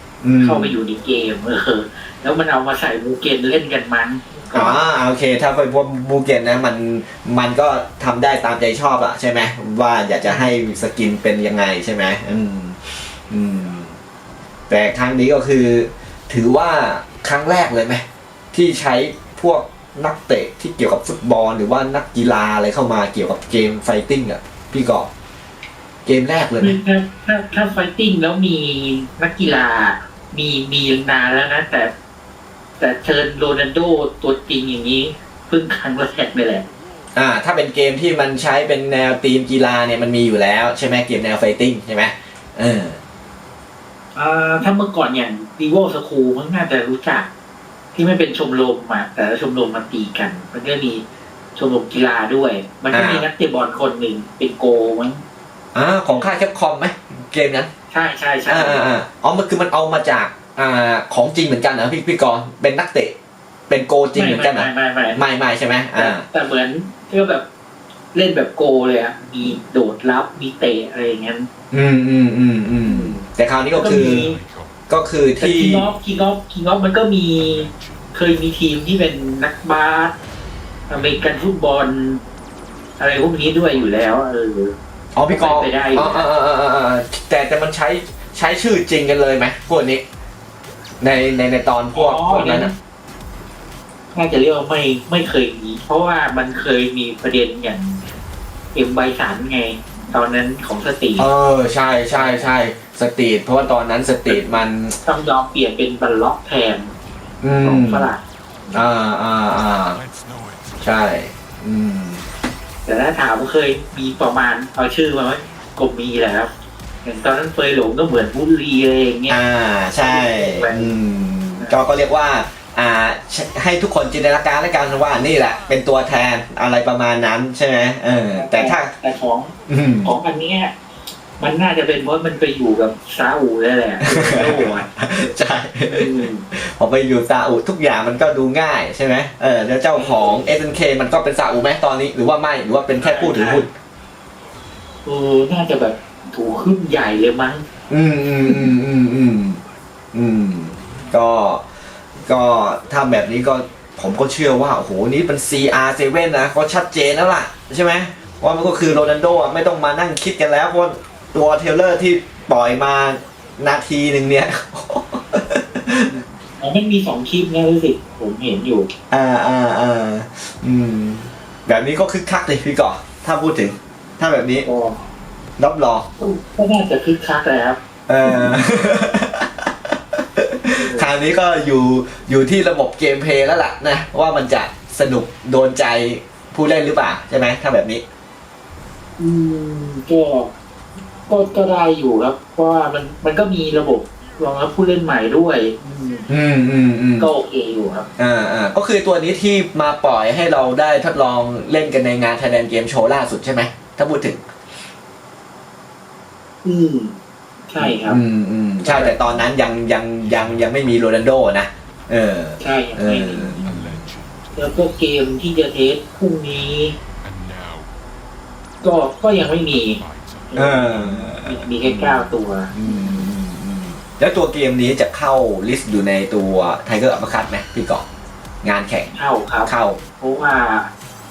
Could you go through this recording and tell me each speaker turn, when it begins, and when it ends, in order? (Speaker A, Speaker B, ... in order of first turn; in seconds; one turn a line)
Speaker A: 0.2-0.8
Speaker B: 0.4-4.8
Speaker A: 4.5-12.8
Speaker A: 13.3-13.9
Speaker A: 14.7-25.1
Speaker A: 26.1-26.8
Speaker B: 26.6-31.9
Speaker B: 32.8-36.6
Speaker A: 37.1-43.0
Speaker B: 44.1-47.3
Speaker B: 47.9-51.0
Speaker B: 51.5-55.2
Speaker A: 52.9-53.3
Speaker A: 55.8-57.7
Speaker B: 56.1-56.3
Speaker B: 57.9-58.9
Speaker A: 58.5-63.1
Speaker A: 63.7-66.2
Speaker B: 64.1-65.2
Speaker B: 65.9-67.5
Speaker B: 68.1-71.5
Speaker A: 71.7-74.3
Speaker B: 72.8-73.2
Speaker B: 73.8-74.4
Speaker C: 73.8-74.9
Speaker A: 74.9-75.9
Speaker B: 75.4-80.2
Speaker C: 75.8-76.3
Speaker C: 77.3-79.5
Speaker C: 80.9-81.7
Speaker B: 80.9-82.2
Speaker C: 82.8-84.3
Speaker B: 83.0-84.8
Speaker A: 85.1-90.0
Speaker B: 85.3-86.3
Speaker A: 91.0-92.7
Speaker B: 91.9-92.7
Speaker B: 94.1-98.0
Speaker B: 98.7-101.3
Speaker A: 101.2-105.0
Speaker B: 102.1-102.5
Speaker B: 104.3-106.9
Speaker A: 107.4-108.1
Speaker B: 107.5-108.2
Speaker A: 108.7-110.0
Speaker C: 109.5-111.1
Speaker A: 110.8-112.2
Speaker B: 112.8-116.5
Speaker B: 117.0-119.4
Speaker A: 119.3-128.9
Speaker B: 120.0-120.9
Speaker B: 128.3-130.8
Speaker A: 129.7-130.1
Speaker B: 131.4-134.9
Speaker A: 134.0-143.7
Speaker B: 135.8-136.5
Speaker B: 139.9-140.4
Speaker B: 143.0-143.7
Speaker B: 145.1-147.7
Speaker A: 147.9-149.6
Speaker A: 150.1-151.6
Speaker A: 152.3-166.1
Speaker B: 158.5-158.9
Speaker B: 165.9-168.9
Speaker A: 169.1-174.7
Speaker B: 174.6-175.0
Speaker A: 175.6-176.1
Speaker B: 176.2-178.6
Speaker A: 178.1-179.7
Speaker A: 180.4-188.0
Speaker B: 180.8-181.1
Speaker B: 189.2-190.5
Speaker B: 191.3-196.3
Speaker A: 196.3-197.3
Speaker B: 197.2-198.1
Speaker A: 198.2-204.4
Speaker B: 206.6-207.2
Speaker B: 207.7-208.2
Speaker A: 207.8-214.1
Speaker B: 208.8-209.5
Speaker C: 210.2-211.2
Speaker B: 212.6-213.7
Speaker C: 213.5-218.0
Speaker B: 214.6-216.9
Speaker B: 218.8-220.0
Speaker C: 219.2-221.8
Speaker B: 220.5-223.3
Speaker A: 220.6-228.1
Speaker A: 228.6-229.1
Speaker B: 229.1-230.9
Speaker A: 229.7-230.0